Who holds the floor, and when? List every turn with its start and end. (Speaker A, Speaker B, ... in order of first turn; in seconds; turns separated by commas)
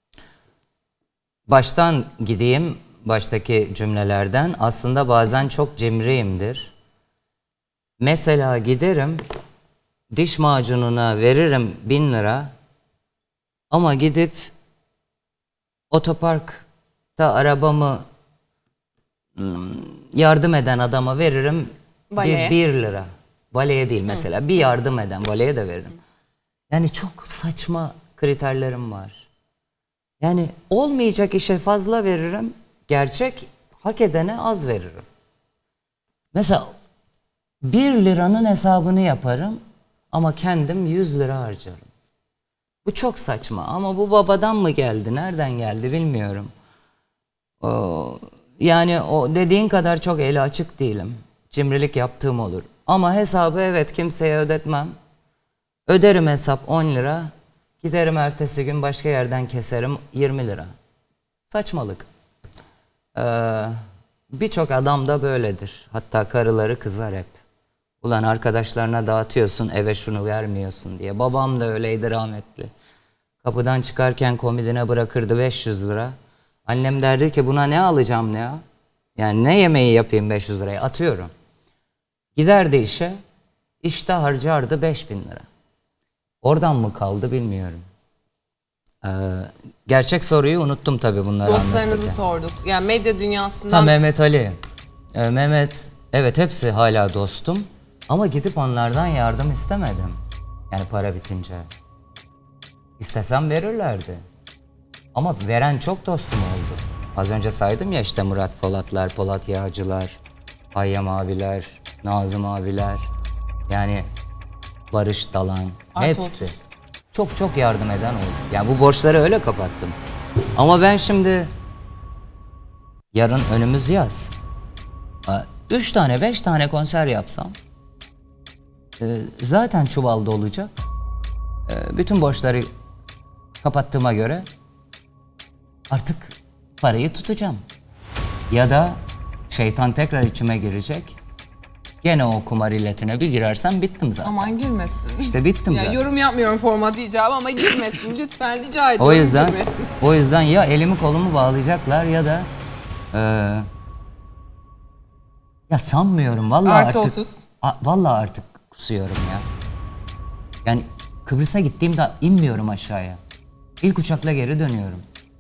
Speaker A: 1.5-6.7, Speaker A: 8.0-9.2, Speaker A: 10.1-12.5, Speaker A: 13.7-14.5, Speaker A: 15.9-18.0, Speaker A: 19.4-26.0, Speaker B: 22.1-22.5, Speaker A: 26.7-29.3, Speaker A: 30.2-35.0, Speaker A: 36.3-36.7, Speaker A: 37.6-39.6, Speaker A: 40.1-41.9, Speaker A: 42.8-46.5, Speaker A: 47.6-55.0, Speaker A: 55.9-57.3, Speaker A: 57.8-60.7, Speaker A: 61.5-62.1, Speaker A: 63.1-63.8, Speaker A: 64.3-67.3, Speaker A: 68.0-72.7, Speaker A: 73.4-76.1, Speaker A: 76.7-78.6, Speaker A: 79.2-81.3, Speaker A: 82.3-83.2, Speaker A: 83.8-85.5, Speaker A: 86.4-87.8, Speaker A: 89.0-92.2, Speaker B: 91.4-93.9, Speaker A: 93.7-94.5, Speaker A: 95.1-100.2, Speaker A: 100.7-101.7, Speaker A: 103.0-104.2, Speaker A: 105.1-110.2, Speaker A: 110.7-113.1, Speaker A: 113.7-114.1, Speaker A: 114.9-116.5, Speaker B: 115.9-116.5, Speaker A: 117.1-120.0, Speaker A: 120.5-121.5, Speaker A: 123.1-124.3, Speaker A: 125.2-127.5, Speaker A: 129.0-130.8, Speaker A: 131.7-132.7, Speaker A: 133.6-134.5, Speaker A: 135.9-137.6, Speaker A: 138.5-141.2, Speaker A: 142.0-144.5, Speaker B: 144.2-149.9, Speaker A: 145.2-146.0, Speaker A: 149.0-152.5, Speaker A: 153.1-153.7, Speaker A: 155.7-159.5, Speaker B: 156.6-157.4, Speaker A: 160.6-163.2, Speaker A: 163.8-165.0